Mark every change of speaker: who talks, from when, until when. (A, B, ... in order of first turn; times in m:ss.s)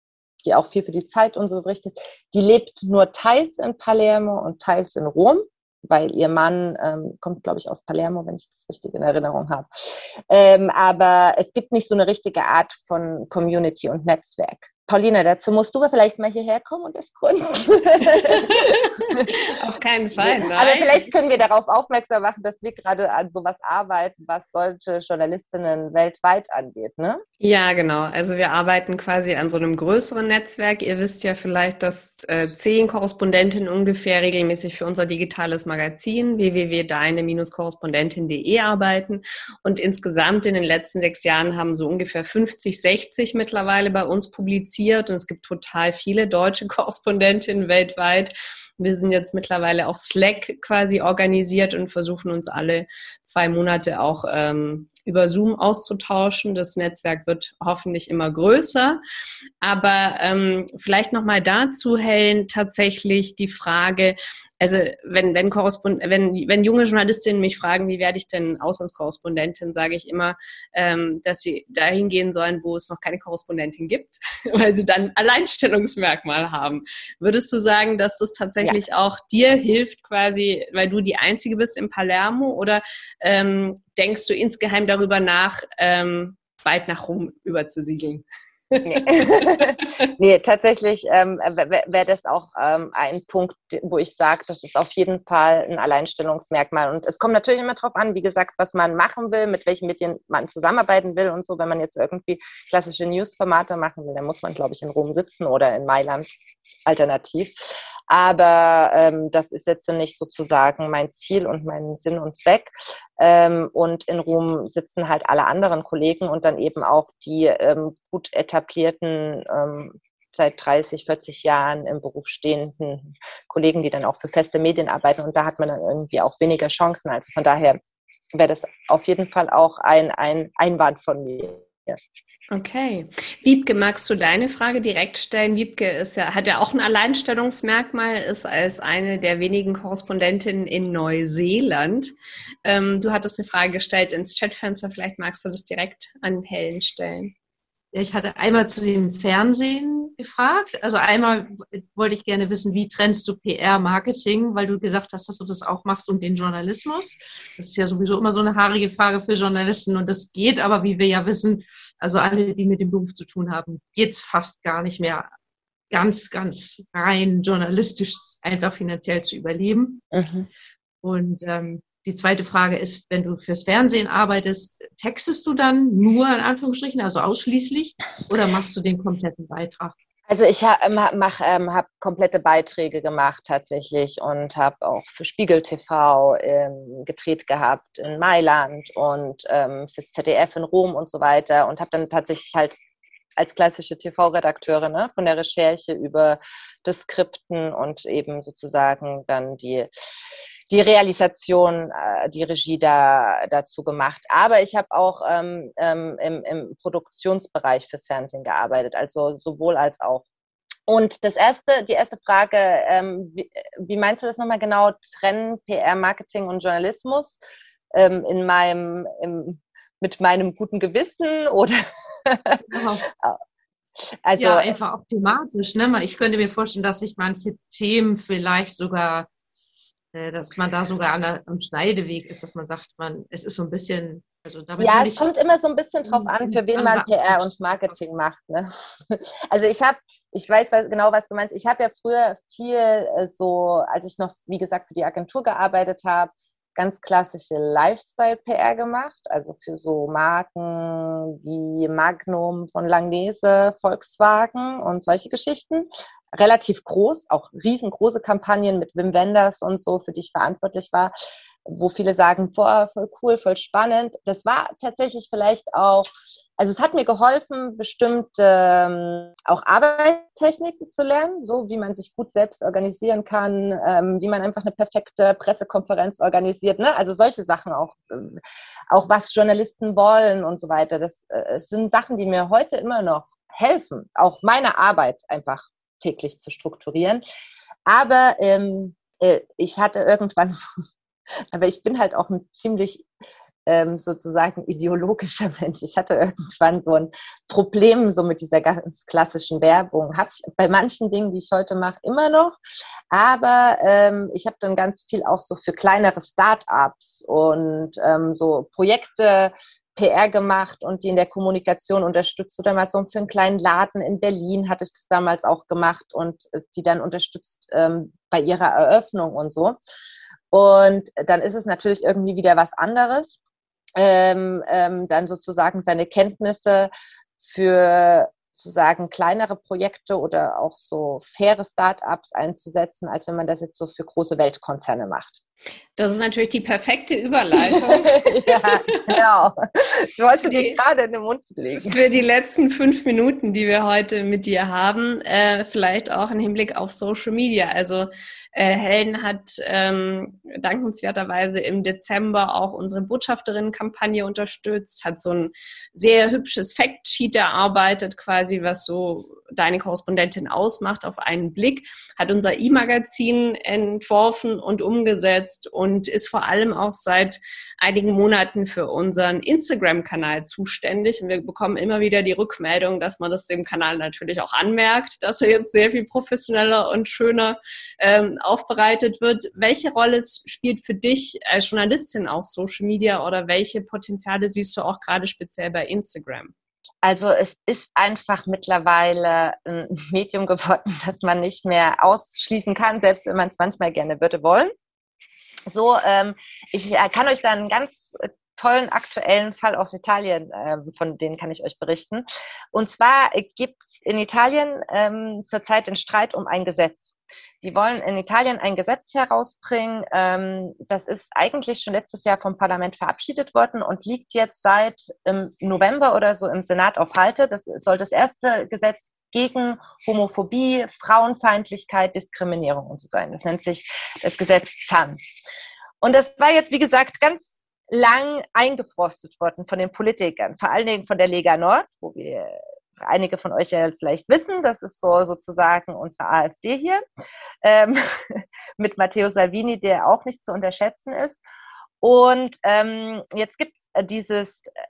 0:00.4-0:19.3 A
0:18.1-0:21.1 B
0:20.2-0:27.2 A
0:27.4-0:59.0 B
0:59.6-1:29.9 B
1:28.8-1:46.3 A
1:46.8-2:07.8 A
2:08.3-2:12.0 A
2:12.5-2:22.1 B
2:22.6-2:27.3 B
2:27.9-2:45.3 C
2:45.9-2:50.0 C
2:50.1-2:50.5 A
2:51.0-2:59.9 C
3:00.3-3:12.8 A
3:13.4-3:19.9 A
3:20.7-3:30.2 A
3:30.9-3:37.4 A
3:37.9-3:42.6 A
3:42.7-3:43.0 C
3:44.2-3:44.8 A
3:44.4-3:49.3 C
3:50.1-3:55.3 C
3:54.8-4:21.1 A
3:56.1-3:57.9 C
4:21.6-4:47.2 A
4:47.9-4:50.6 A
4:51.5-4:53.0 A
4:53.6-5:02.6 A
5:03.1-5:19.8 A
5:20.5-5:23.4 A
5:24.0-5:26.9 A
5:27.4-5:35.4 A
5:36.0-5:39.2 B
5:37.6-5:42.0 A
5:40.4-5:40.8 B
5:41.8-6:26.5 B
6:27.0-6:34.7 A
6:35.7-7:05.2 A
7:06.0-7:17.0 A
7:17.6-7:21.4 A
7:22.0-7:24.7 A